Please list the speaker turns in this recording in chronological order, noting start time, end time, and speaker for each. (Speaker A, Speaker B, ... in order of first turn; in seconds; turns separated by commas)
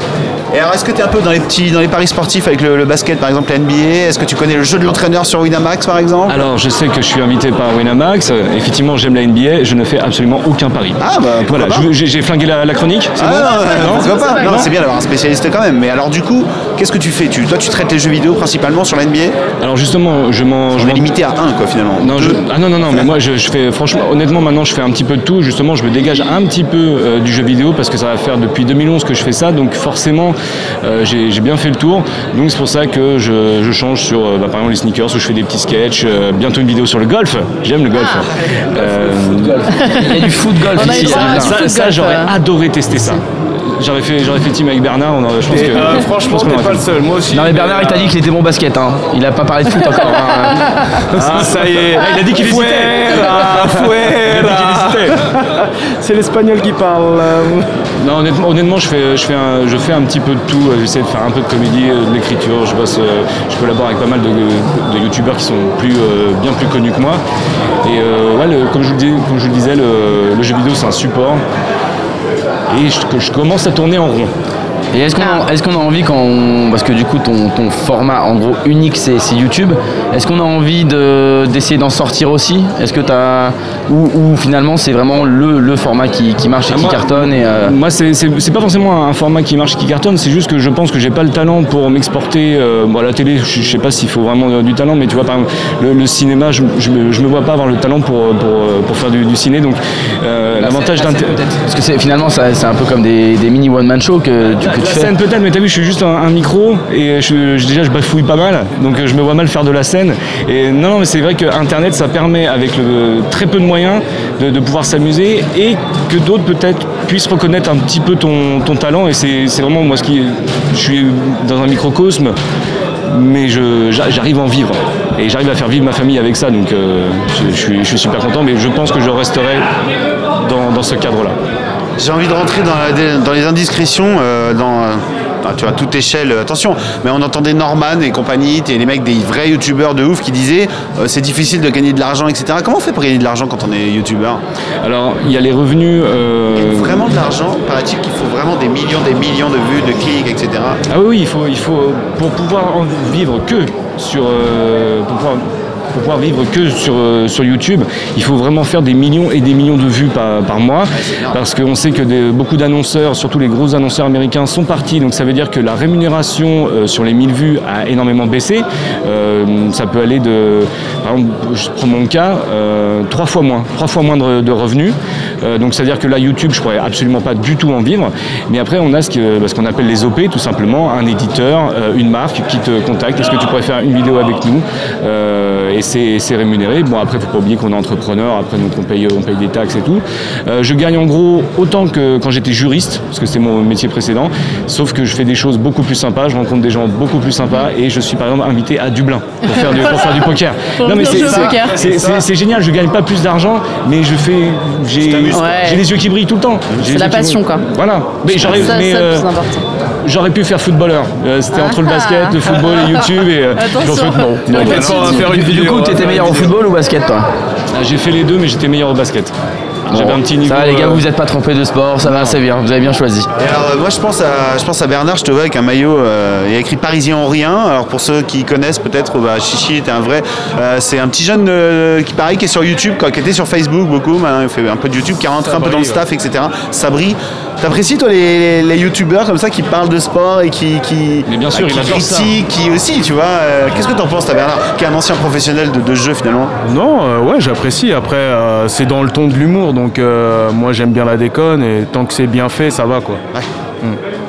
Speaker A: 0.5-6.4, Speaker B: 6.3-14.7, Speaker A: 11.0-11.9, Speaker A: 13.2-19.4, Speaker C: 13.4-14.7, Speaker B: 19.6-21.1, Speaker A: 20.7-22.4, Speaker B: 22.0-39.7, Speaker C: 37.9-38.3, Speaker D: 38.7-41.5, Speaker C: 39.7-42.3, Speaker B: 40.8-46.9, Speaker E: 45.5-48.2, Speaker D: 47.3-51.4, Speaker C: 50.1-51.0, Speaker E: 51.1-57.7, Speaker B: 52.0-55.2, Speaker B: 58.0-67.2, Speaker B: 67.8-71.4, Speaker B: 72.7-74.3, Speaker D: 74.9-87.8, Speaker C: 75.2-75.5, Speaker B: 86.7-101.4, Speaker D: 100.6-105.1, Speaker B: 104.6-122.3, Speaker B: 123.1-129.7, Speaker B: 130.4-131.4, Speaker A: 132.0-144.4, Speaker B: 144.8-147.1, Speaker A: 146.5-150.8, Speaker B: 150.9-209.3, Speaker A: 160.9-161.4, Speaker C: 199.4-201.8, Speaker A: 201.0-202.2, Speaker A: 205.0-205.5, Speaker C: 205.3-205.8, Speaker C: 206.8-207.6, Speaker C: 208.3-209.6, Speaker B: 210.0-215.1, Speaker C: 211.5-213.1, Speaker C: 213.6-215.3, Speaker E: 214.5-216.6, Speaker D: 214.6-217.3, Speaker B: 217.7-219.3, Speaker B: 219.9-221.1, Speaker D: 219.9-223.3, Speaker B: 222.1-222.3, Speaker A: 223.3-246.5, Speaker E: 235.4-236.0, Speaker B: 241.3-242.4, Speaker E: 246.6-253.2